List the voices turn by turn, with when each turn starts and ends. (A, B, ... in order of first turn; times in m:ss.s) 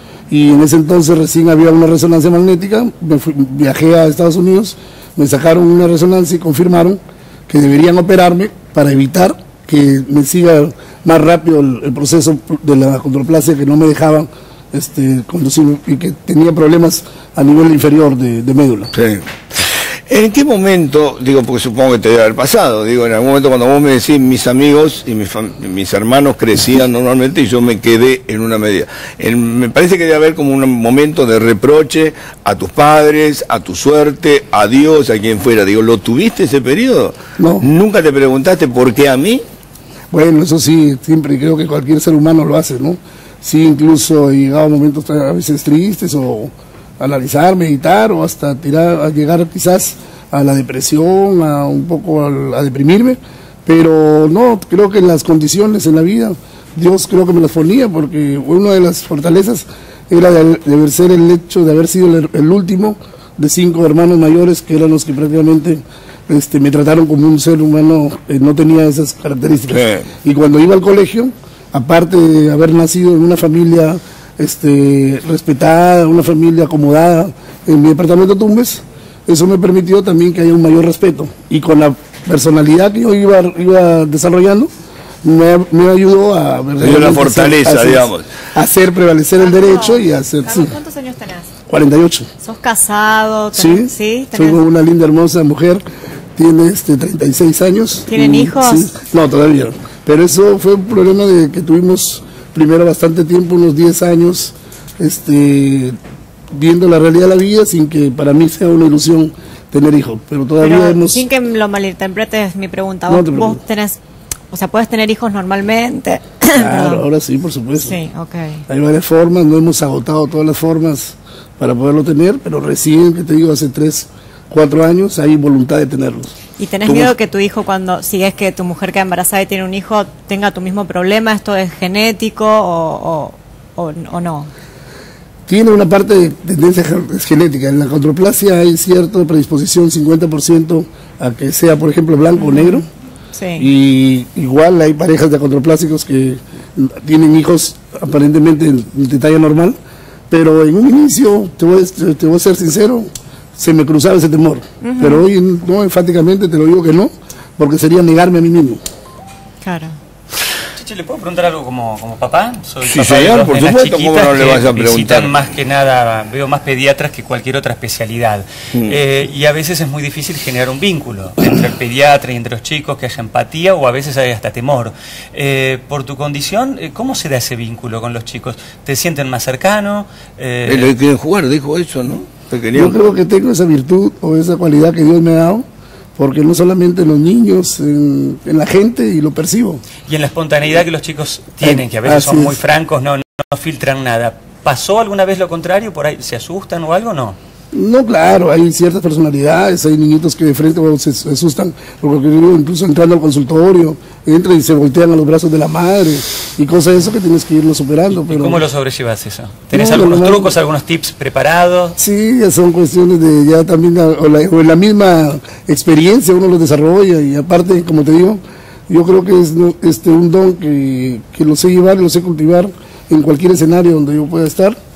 0:00.3-0:18.9 A
0:18.9-0:39.4 B
0:37.4-0:37.6 A
0:40.1-1:24.7 A
1:09.7-1:10.1 B
1:25.2-1:30.7 A
1:26.8-1:28.3 B
1:29.4-1:31.5 C
1:31.7-1:32.3 A
1:32.4-1:34.6 C
1:33.5-1:35.8 A
1:36.4-1:46.0 A
1:38.1-1:38.9 C
1:46.5-1:51.2 A
1:50.6-1:54.0 C
1:53.1-1:53.6 A
1:54.5-1:57.0 C
1:56.6-1:58.0 A
1:57.8-1:58.6 C
1:58.7-2:06.3 A
2:06.6-2:14.5 C
2:06.8-2:07.1 A
2:15.5-2:22.8 A
2:22.4-2:22.7 C
2:23.3-2:23.7 C
2:23.6-2:29.8 A
2:30.3-2:38.8 A
2:34.8-2:35.2 C
2:39.6-2:39.9 C
2:40.8-3:00.9 D
2:42.8-2:45.4 B
3:00.6-3:03.0 B
3:02.7-3:05.6 A
3:06.2-3:09.8 A
3:10.0-3:17.4 D
3:11.6-3:12.6 A
3:17.7-3:28.6 A
3:28.1-3:32.0 D
3:29.7-3:30.5 A
3:32.0-3:44.8 A